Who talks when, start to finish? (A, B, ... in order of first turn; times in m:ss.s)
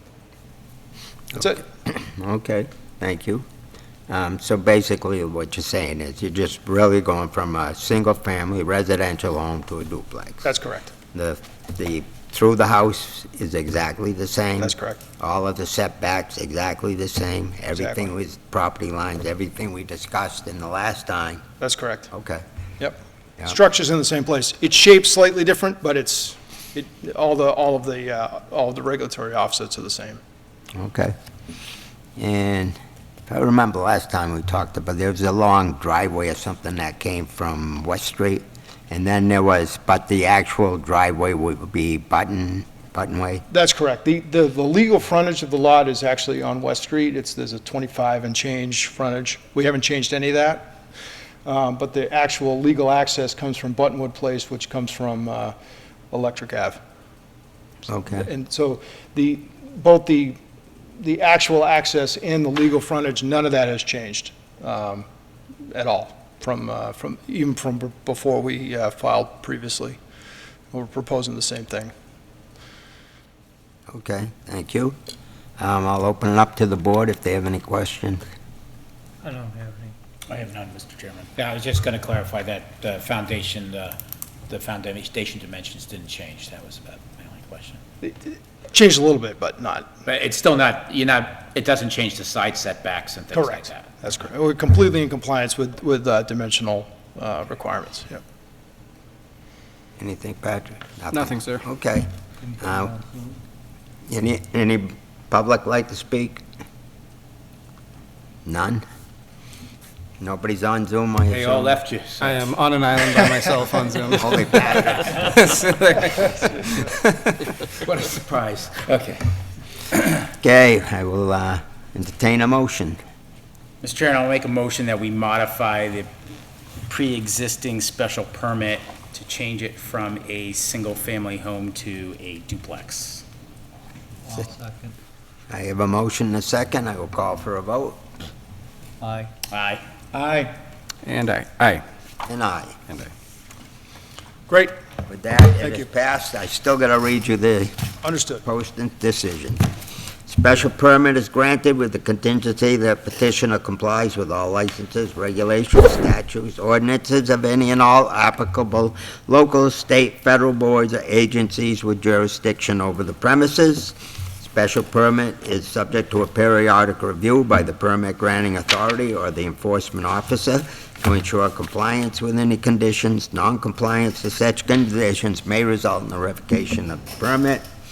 0:01.3-0:01.6 A
0:01.4-0:03.4 B
0:04.1-0:10.5 B
0:10.4-0:10.9 A
0:11.1-0:21.4 B
0:14.6-0:15.0 A
0:17.8-0:18.0 A
0:21.6-0:22.1 A
0:22.1-0:22.4 B
0:22.8-0:30.2 A
0:30.7-0:31.1 B
0:32.2-0:43.4 B
0:43.5-0:50.8 A
0:51.4-0:55.5 A
0:56.1-0:56.8 A
0:57.9-0:58.3 B
0:58.1-1:00.4 A
1:01.0-1:05.1 A
1:05.7-1:10.0 A
1:10.7-1:11.9 A
1:13.9-1:15.0 B
1:15.6-1:18.2 B
1:19.2-1:19.9 C
1:20.3-1:24.0 D
1:24.5-1:27.8 D
1:28.0-1:29.9 A
1:30.0-1:33.9 D
1:33.3-1:38.2 A
1:40.0-1:43.0 B
1:41.1-1:41.6 E
1:43.0-1:43.3 C
1:44.1-1:46.4 B
1:48.4-1:48.8 B
1:50.2-1:51.8 B
1:51.3-1:52.4 D
1:52.2-1:57.5 E
1:54.2-1:55.1 B
1:57.8-1:59.3 D
2:00.4-2:03.0 B
2:03.8-2:06.1 D
2:06.9-2:13.2 D
2:14.2-2:14.9 C
2:15.5-2:18.0 B
2:19.0-2:19.3 C
2:19.5-2:20.5 D
2:21.0-2:21.8 E
2:22.3-2:22.8 B
2:24.5-2:24.7 A
2:25.1-2:27.7 B
2:25.6-2:25.8 A
2:28.0-2:28.4 A
2:28.4-2:29.7 B
2:30.2-2:57.6 B